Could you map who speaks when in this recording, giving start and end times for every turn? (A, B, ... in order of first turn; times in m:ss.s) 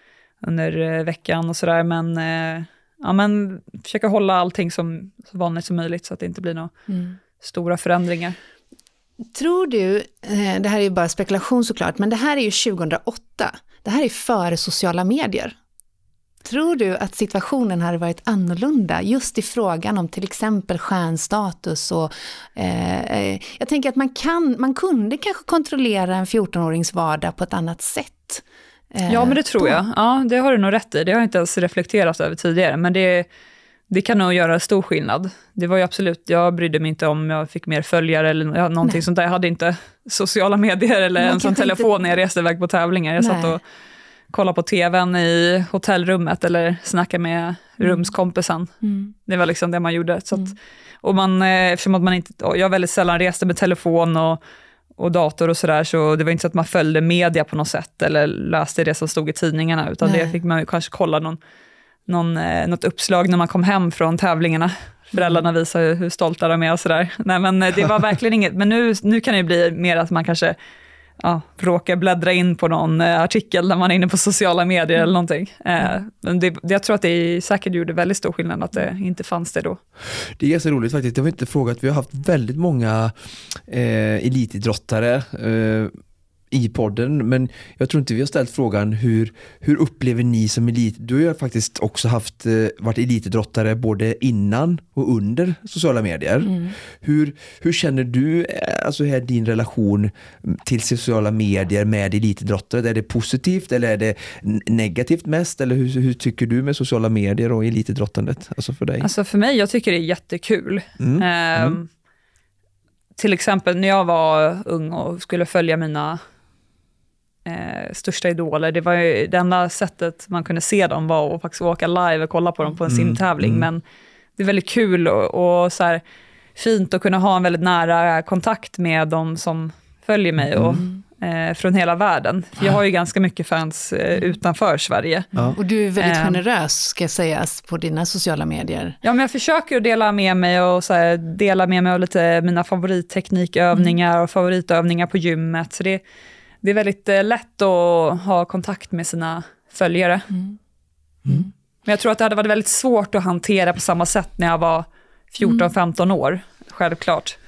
0:00.4-0:06.7 A
0:06.9-0:07.2 B
0:07.4-0:08.4 A
0:09.3-0:15.6 B
0:16.4-0:29.8 B
0:29.1-0:33.3 A
0:33.9-0:43.6 A
0:41.2-0:42.0 B
0:43.2-0:43.6 B
0:44.3-0:48.7 A
0:47.8-0:48.1 B
0:48.8-0:49.1 B
0:49.2-0:54.4 A
0:55.0-1:01.4 A
1:00.0-1:00.4 B
1:02.1-1:10.6 A
1:05.2-1:05.4 B
1:11.2-1:19.8 A
1:20.4-1:25.9 C
1:26.5-1:49.1 C
1:36.4-1:36.7 B
1:49.0-1:51.9 A
1:51.0-1:51.8 C
1:53.2-1:56.2 A
1:57.4-2:03.8 A
2:02.9-2:03.7 C
2:04.4-2:06.0 A
2:06.6-2:15.3 A
2:10.5-2:10.8 C
2:15.4-2:19.0 B
2:16.0-2:16.4 A
2:19.0-2:26.0 A
2:26.6-2:30.3 A
2:31.8-2:37.4 A
2:35.4-2:35.7 B